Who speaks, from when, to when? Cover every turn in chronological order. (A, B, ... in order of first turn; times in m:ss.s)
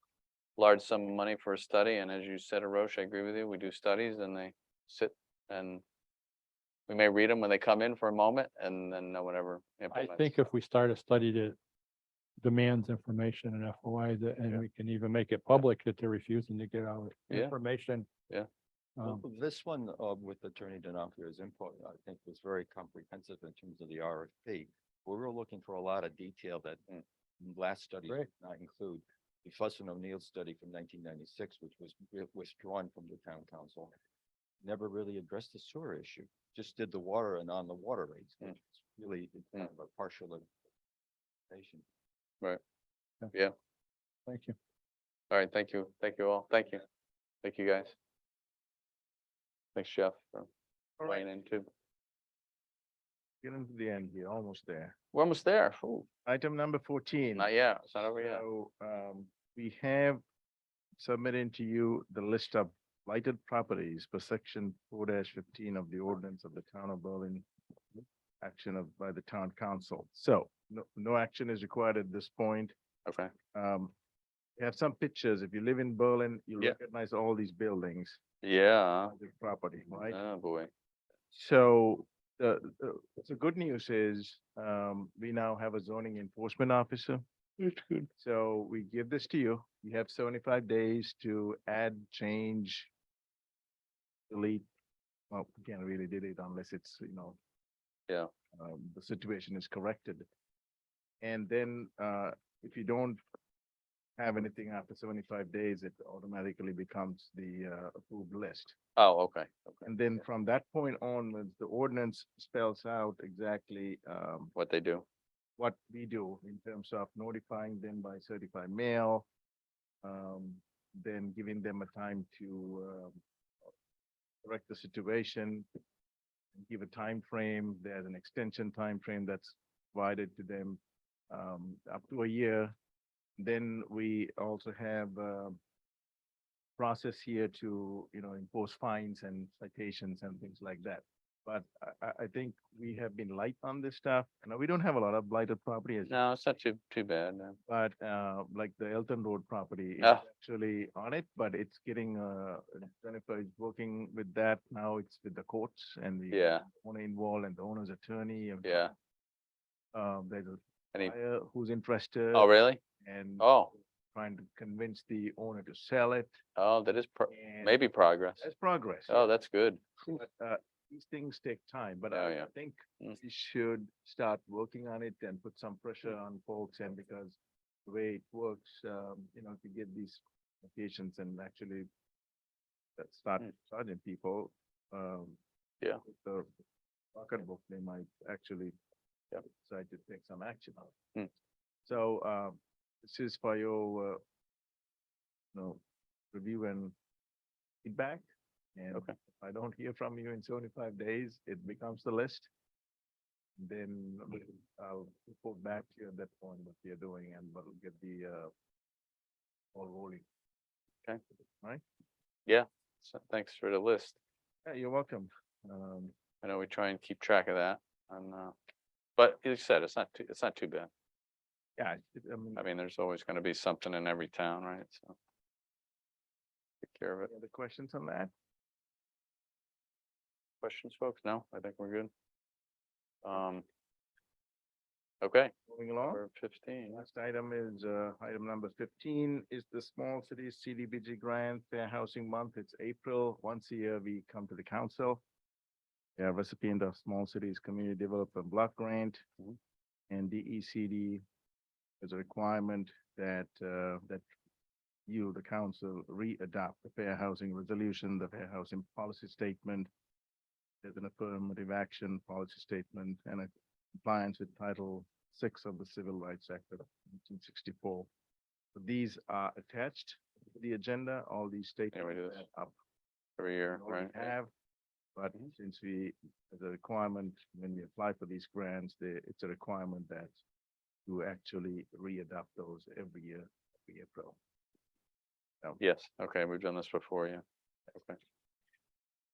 0:00.6-0:05.8 A
0:06.9-0:10.3 A
0:09.9-0:11.6 B
0:12.4-0:18.1 B
0:19.0-0:19.2 B
0:19.0-0:26.8 C
0:27.4-0:34.0 C
0:34.6-0:40.5 C
0:41.5-0:41.8 C
0:44.3-0:44.6 B
0:45.3-0:46.8 A
0:47.4-0:48.0 A
0:49.8-0:50.5 A
0:51.0-0:51.3 D
0:51.0-0:51.7 A
0:53.4-0:55.0 D
0:55.1-0:56.1 A
0:56.3-1:00.2 D
0:57.4-0:58.4 A
1:01.0-1:07.5 D
1:08.4-1:12.8 D
1:13.1-1:13.3 A
1:13.5-1:13.9 D
1:14.6-1:18.2 D
1:18.4-1:19.1 A
1:19.0-1:20.2 D
1:20.1-1:20.7 A
1:21.3-1:27.2 D
1:27.6-1:28.1 A
1:28.2-1:32.9 D
1:34.3-1:34.7 D
1:35.3-1:37.4 D
1:38.5-1:40.3 D
1:41.2-1:43.2 D
1:44.2-1:48.8 D
1:49.0-1:49.9 A
1:49.8-1:54.5 D
1:54.6-1:55.0 A
1:55.6-1:59.3 D
2:00.0-2:03.2 D
2:04.4-2:05.7 D
2:06.6-2:10.8 D
2:11.3-2:12.7 D
2:13.4-2:15.6 D
2:16.8-2:26.2 D
2:26.1-2:27.6 A
2:27.7-2:38.9 D
2:30.0-2:30.2 A
2:36.3-2:36.7 A
2:38.6-2:38.9 A
2:39.9-2:42.5 D
2:42.3-2:42.8 A
2:43.0-2:43.5 D
2:43.4-2:43.7 A
2:44.1-2:46.4 D
2:46.6-2:48.4 A
2:47.3-2:47.7 D
2:48.4-2:49.3 D
2:49.1-2:49.8 A
2:50.1-3:01.9 D
2:52.1-2:52.5 A
3:03.0-3:05.4 D
3:06.0-3:06.5 D
3:07.1-3:08.7 D
3:09.6-3:10.9 D
3:11.8-3:14.2 D
3:15.5-3:16.9 D
3:17.8-3:22.5 D
3:23.6-3:28.5 D
3:29.7-3:30.2 D
3:32.5-3:34.2 A
3:34.6-3:36.1 D
3:36.4-3:38.5 A
3:39.2-3:40.9 A
3:41.8-3:42.6 D
3:42.6-3:45.2 A
3:46.8-3:47.3 A
3:47.2-3:48.3 D
3:50.6-3:52.1 A
3:53.2-3:53.6 A
3:55.2-3:55.5 A
3:55.7-3:56.2 D
3:56.0-3:57.0 A
3:56.9-4:05.2 D
4:06.2-4:09.2 D
4:10.1-4:11.2 D
4:12.0-4:14.2 D
4:15.1-4:19.9 D
4:20.8-4:28.1 D
4:28.8-4:32.8 D
4:31.9-4:32.4 A
4:33.4-4:34.3 A
4:33.7-4:34.5 D
4:35.2-4:40.3 D
4:41.1-4:44.4 D
4:45.8-4:47.4 A
4:47.9-4:48.2 A